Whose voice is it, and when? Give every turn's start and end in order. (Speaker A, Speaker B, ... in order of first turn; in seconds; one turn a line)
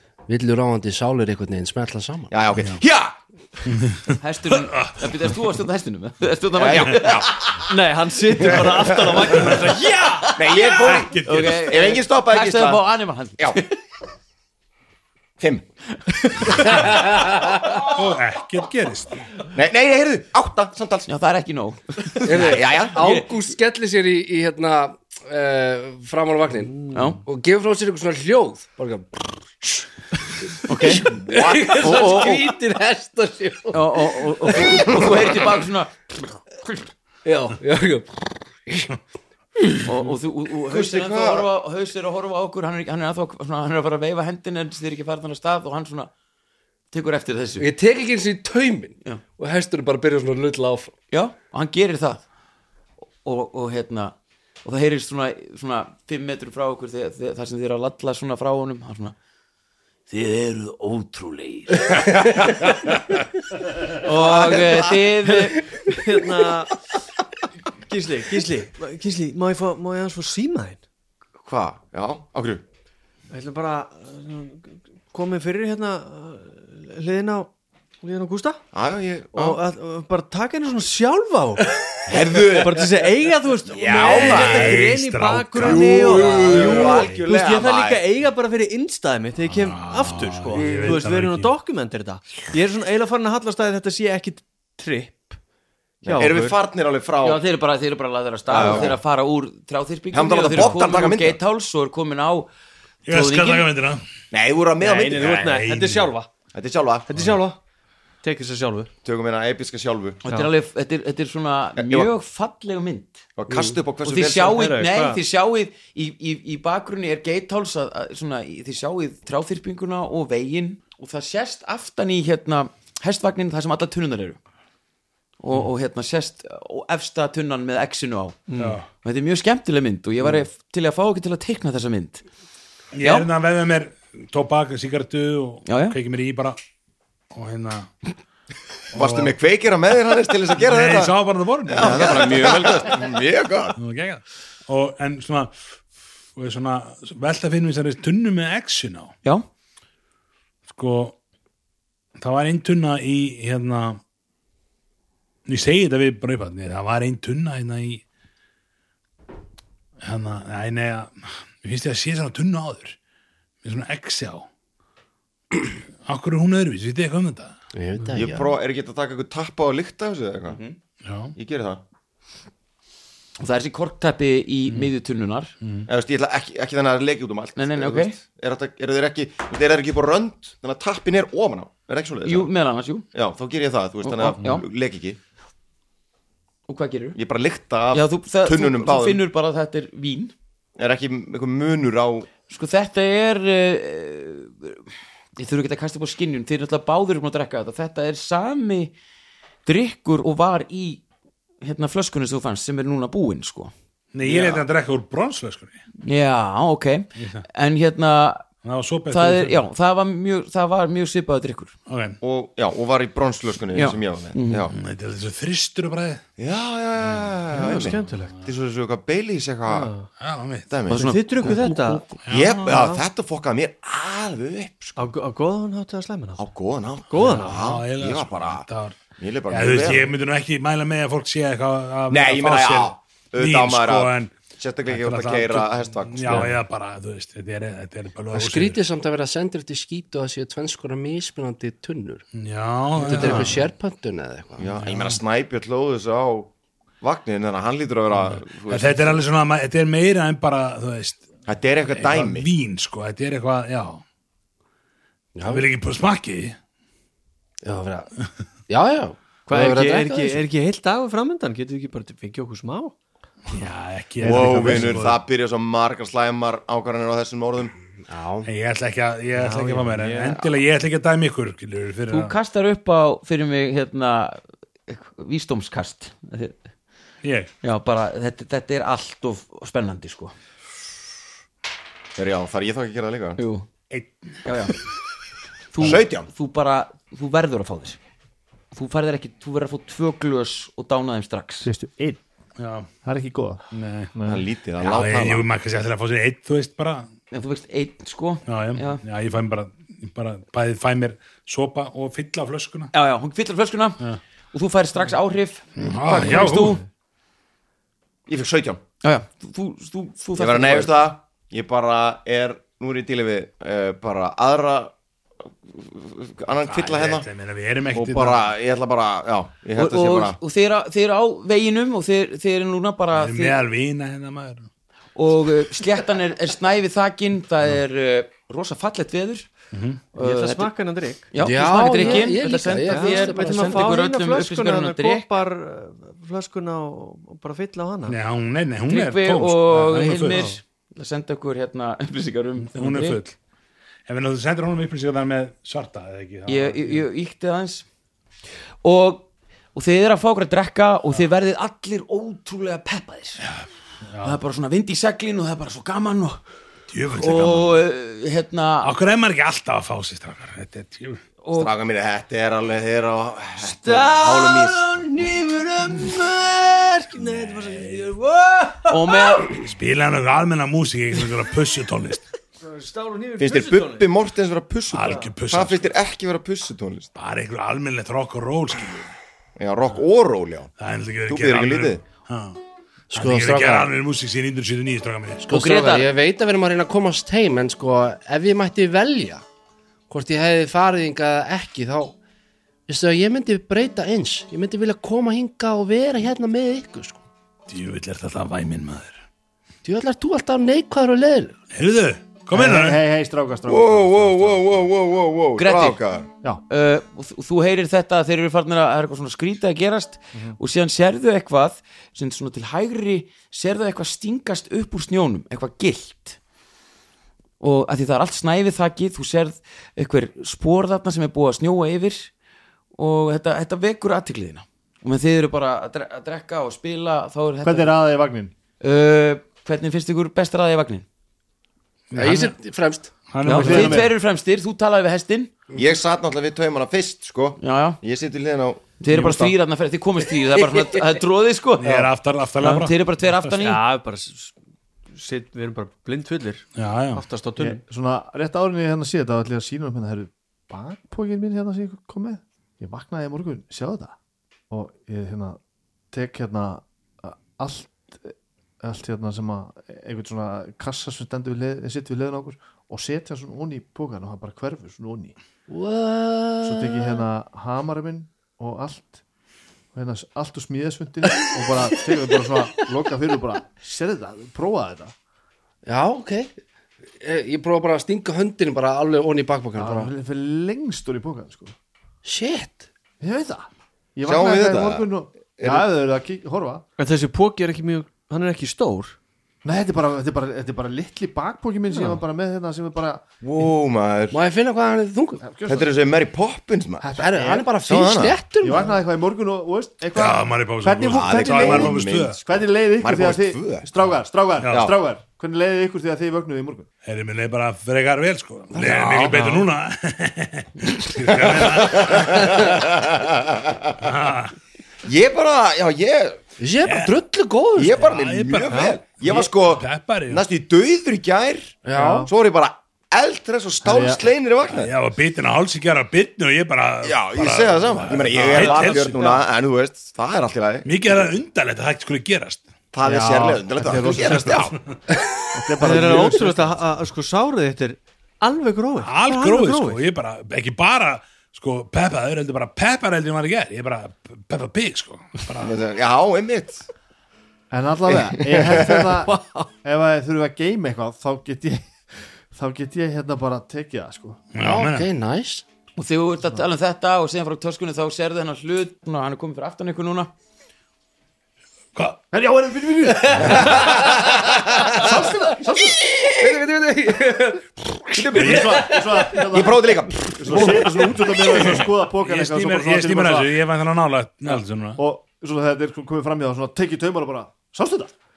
Speaker A: 0.3-2.3
Speaker B: 2.3-3.1
Speaker C: 3.7-4.2
Speaker D: 4.2-7.6
Speaker C: 4.7-5.0
Speaker B: 6.6-7.6
Speaker E: 7.7-10.3
Speaker B: 8.4-9.6
Speaker D: 9.8-13.8
Speaker B: 10.4-12.8
Speaker C: 10.9-11.6
Speaker B: 15.4-15.7
Speaker A: 16.9-17.6
Speaker C: 17.9-19.2
Speaker B: 19.5-21.1
Speaker D: 21.1-23.3
Speaker A: 22.2-29.9
Speaker B: 22.3-23.1
Speaker D: 26.9-27.2
Speaker A: 30.5-35.6
Speaker D: 30.6-31.1
Speaker B: 31.0-32.4
Speaker D: 31.8-32.4
Speaker D: 33.7-35.9
Speaker A: 37.2-38.9
Speaker D: 39.8-46.1
Speaker B: 40.7-41.5
Speaker D: 46.9-47.7
Speaker A: 47.6-50.9
Speaker D: 51.1-52.2
Speaker D: 53.2-59.1
Speaker D: 60.1-62.1
Speaker B: 62.1-62.9
Speaker D: 63.8-65.7
Speaker B: 64.0-65.1
Speaker E: 65.3-66.8
Speaker E: 67.9-70.8
Speaker B: 71.4-72.6
Speaker E: 73.3-77.5
Speaker E: 78.0-78.6
Speaker B: 78.7-79.6
Speaker E: 79.3-81.8
Speaker B: 82.1-82.9
Speaker E: 82.5-95.4
Speaker B: 83.7-84.9
Speaker C: 83.9-87.2
Speaker B: 85.6-88.0
Speaker C: 89.5-91.5
Speaker E: 96.0-96.6
Speaker B: 96.0-97.4
Speaker D: 97.2-102.5
Speaker B: 98.5-99.0
Speaker E: 98.6-98.8
Speaker B: 100.1-101.4
Speaker C: 103.1-104.0
Speaker D: 103.1-103.7
Speaker B: 104.3-105.6
Speaker E: 104.8-106.3
Speaker C: 105.1-106.1
Speaker B: 106.5-107.2
Speaker E: 107.1-107.6
Speaker E: 108.2-108.9
Speaker B: 109.0-110.2
Speaker D: 110.2-113.2
Speaker B: 111.8-112.1
Speaker B: 113.4-114.6
Speaker A: 113.5-113.8
Speaker D: 114.0-124.4
Speaker E: 114.2-115.2
Speaker D: 125.4-132.2
Speaker E: 128.5-128.8
Speaker C: 128.6-128.8
Speaker C: 132.9-136.6
Speaker D: 133.0-133.3
Speaker D: 135.7-136.0
Speaker C: 137.3-137.9
Speaker B: 138.9-141.1
Speaker C: 138.9-139.3
Speaker C: 140.6-142.2
Speaker B: 141.7-143.8
Speaker D: 141.8-143.0
Speaker C: 143.8-145.6
Speaker C: 146.4-149.1
Speaker C: 150.7-151.2
Speaker C: 152.2-154.0
Speaker C: 155.5-158.0
Speaker C: 160.0-163.0
Speaker C: 163.6-164.5
Speaker C: 166.1-167.6
Speaker A: 167.7-168.5
Speaker B: 168.1-170.6
Speaker D: 170.5-170.8
Speaker C: 171.0-171.3
Speaker B: 171.4-171.8
Speaker D: 173.4-175.5
Speaker C: 175.6-175.9
Speaker B: 175.9-182.5
Speaker D: 177.6-178.2
Speaker D: 182.2-183.1
Speaker B: 183.1-185.2
Speaker D: 184.0-184.6
Speaker D: 186.7-187.2
Speaker B: 187.1-189.2
Speaker D: 187.9-190.3
Speaker B: 190.8-192.3
Speaker D: 192.5-194.8
Speaker D: 195.4-198.9
Speaker D: 199.7-201.0
Speaker D: 201.6-203.7
Speaker C: 204.1-205.8
Speaker B: 204.2-204.6
Speaker D: 206.0-208.5
Speaker C: 207.2-207.4
Speaker C: 208.6-209.6
Speaker D: 209.1-211.7
Speaker C: 211.9-212.2
Speaker B: 212.2-214.8
Speaker D: 213.7-214.7
Speaker C: 214.7-216.2
Speaker B: 216.4-219.9
Speaker C: 217.1-218.4
Speaker E: 217.5-218.4
Speaker E: 219.7-220.1
Speaker C: 220.2-220.7
Speaker B: 220.7-221.6
Speaker D: 220.9-222.2
Speaker E: 221.0-222.1
Speaker C: 222.2-222.8
Speaker B: 222.3-225.1
Speaker E: 222.7-223.0
Speaker E: 225.0-226.4
Speaker B: 226.4-228.7
Speaker E: 227.1-227.7
Speaker C: 227.2-229.0
Speaker B: 229.2-230.1
Speaker C: 229.5-234.3
Speaker B: 232.1-236.6
Speaker C: 234.9-238.8
Speaker A: 238.3-242.2
Speaker C: 242.3-243.6
Speaker A: 243.0-244.7
Speaker B: 244.6-249.2
Speaker C: 244.8-245.2
Speaker C: 248.3-251.2
Speaker B: 251.5-252.5
Speaker C: 251.9-254.0
Speaker A: 255.3-255.7
Speaker C: 255.5-256.6
Speaker A: 257.6-258.1
Speaker A: 258.7-260.4
Speaker E: 259.5-262.9
Speaker C: 263.5-265.2
Speaker B: 264.2-267.8
Speaker F: 264.2-265.1
Speaker A: 268.1-268.5
Speaker C: 268.4-272.4
Speaker E: 269.4-270.4
Speaker D: 272.1-276.6
Speaker C: 277.2-277.5
Speaker D: 277.6-280.3
Speaker B: 282.1-283.4
Speaker D: 283.4-283.7
Speaker D: 284.4-284.8
Speaker D: 285.7-288.0
Speaker B: 285.8-286.3
Speaker D: 288.7-291.7
Speaker F: 291.6-292.2
Speaker C: 292.6-292.9
Speaker F: 293.0-294.5
Speaker C: 293.7-294.1
Speaker B: 294.2-295.5
Speaker C: 294.8-297.1
Speaker D: 297.3-299.0
Speaker C: 298.5-302.9
Speaker D: 302.9-306.8
Speaker C: 305.8-306.8
Speaker B: 308.3-308.8
Speaker D: 309.0-310.9
Speaker B: 310.4-314.9
Speaker B: 315.5-317.3
Speaker C: 316.6-318.5
Speaker B: 317.9-320.4
Speaker D: 319.8-323.6
Speaker C: 323.1-324.7
Speaker D: 325.1-329.5
Speaker C: 329.7-330.0
Speaker D: 330.1-330.7
Speaker E: 330.1-338.2
Speaker D: 331.3-335.3
Speaker A: 331.4-334.0
Speaker C: 338.1-340.5
Speaker D: 338.9-343.2
Speaker E: 340.1-340.6
Speaker C: 342.6-343.4
Speaker C: 344.1-347.1
Speaker D: 346.4-347.9
Speaker D: 348.8-353.4
Speaker C: 353.4-354.4
Speaker D: 354.2-356.4
Speaker C: 356.9-357.8
Speaker D: 357.1-358.9
Speaker C: 358.8-361.2
Speaker D: 361.4-361.7
Speaker B: 361.5-365.0
Speaker E: 363.8-369.4
Speaker C: 367.1-368.1
Speaker D: 368.9-369.6
Speaker C: 369.4-372.3
Speaker E: 372.6-374.1
Speaker B: 373.4-377.1
Speaker C: 374.9-375.9
Speaker C: 377.1-379.1
Speaker B: 379.6-380.7
Speaker C: 380.8-382.6
Speaker B: 381.3-382.0
Speaker A: 383.1-383.9
Speaker C: 383.1-385.5
Speaker A: 385.4-389.4
Speaker D: 385.5-386.1
Speaker A: 390.1-392.1
Speaker A: 392.9-397.2
Speaker C: 397.7-399.2
Speaker A: 399.8-401.6
Speaker C: 401.7-403.0
Speaker F: 402.5-404.6
Speaker B: 403.7-406.3
Speaker D: 405.6-406.0
Speaker D: 406.7-416.4
Speaker D: 417.6-422.3
Speaker D: 422.9-427.9
Speaker F: 427.6-428.5
Speaker D: 428.8-431.1
Speaker C: 432.1-432.6
Speaker A: 432.1-433.1
Speaker C: 433.3-434.1
Speaker F: 433.4-434.1
Speaker D: 433.4-435.5
Speaker B: 435.8-439.6
Speaker D: 437.6-438.0
Speaker D: 439.0-443.8
Speaker C: 441.8-443.5
Speaker E: 443.6-444.6
Speaker E: 445.1-447.8
Speaker C: 446.8-447.2
Speaker F: 447.6-454.1
Speaker F: 454.7-455.6
Speaker F: 456.1-465.4
Speaker A: 465.7-467.3
Speaker F: 466.6-469.2
Speaker F: 469.9-475.1
Speaker A: 475.9-476.5
Speaker A: 477.2-480.1
Speaker F: 479.8-481.7
Speaker A: 482.2-482.9
Speaker F: 483.2-486.9
Speaker B: 484.2-485.9
Speaker E: 487.0-489.1
Speaker F: 489.6-493.2
Speaker B: 493.4-494.4
Speaker A: 494.3-495.4
Speaker F: 495.4-495.9
Speaker B: 495.7-497.1
Speaker F: 497.0-497.8
Speaker A: 497.2-499.0
Speaker B: 497.9-498.4
Speaker F: 498.6-506.9
Speaker C: 500.1-502.4
Speaker B: 501.1-502.4
Speaker B: 503.0-503.9
Speaker C: 504.6-504.9
Speaker B: 504.7-504.9
Speaker C: 507.1-512.7
Speaker B: 508.7-509.6
Speaker B: 511.3-514.1
Speaker C: 514.0-514.5
Speaker B: 515.0-516.4
Speaker A: 516.6-518.0
Speaker C: 516.9-517.2
Speaker B: 517.8-524.9
Speaker C: 517.9-520.4
Speaker E: 518.6-519.0
Speaker A: 521.9-522.3
Speaker F: 521.9-522.3
Speaker F: 523.8-524.2
Speaker C: 524.7-529.4
Speaker B: 527.0-530.9
Speaker C: 530.8-532.6
Speaker B: 532.9-534.8
Speaker F: 533.0-534.8
Speaker C: 534.1-534.9
Speaker F: 535.5-536.8
Speaker E: 535.8-540.0
Speaker C: 539.0-545.8
Speaker B: 545.6-546.9
Speaker F: 547.7-554.4
Speaker B: 548.1-549.2
Speaker C: 554.5-555.1
Speaker A: 554.6-555.6
Speaker D: 556.0-560.3
Speaker C: 561.9-562.2
Speaker F: 562.3-564.0
Speaker C: 563.4-563.6
Speaker B: 563.4-565.1
Speaker F: 564.9-566.0
Speaker A: 566.3-567.9
Speaker B: 568.2-571.2
Speaker F: 568.3-573.5
Speaker C: 568.4-568.8
Speaker A: 570.5-570.8
Speaker C: 571.5-575.0
Speaker F: 575.0-578.1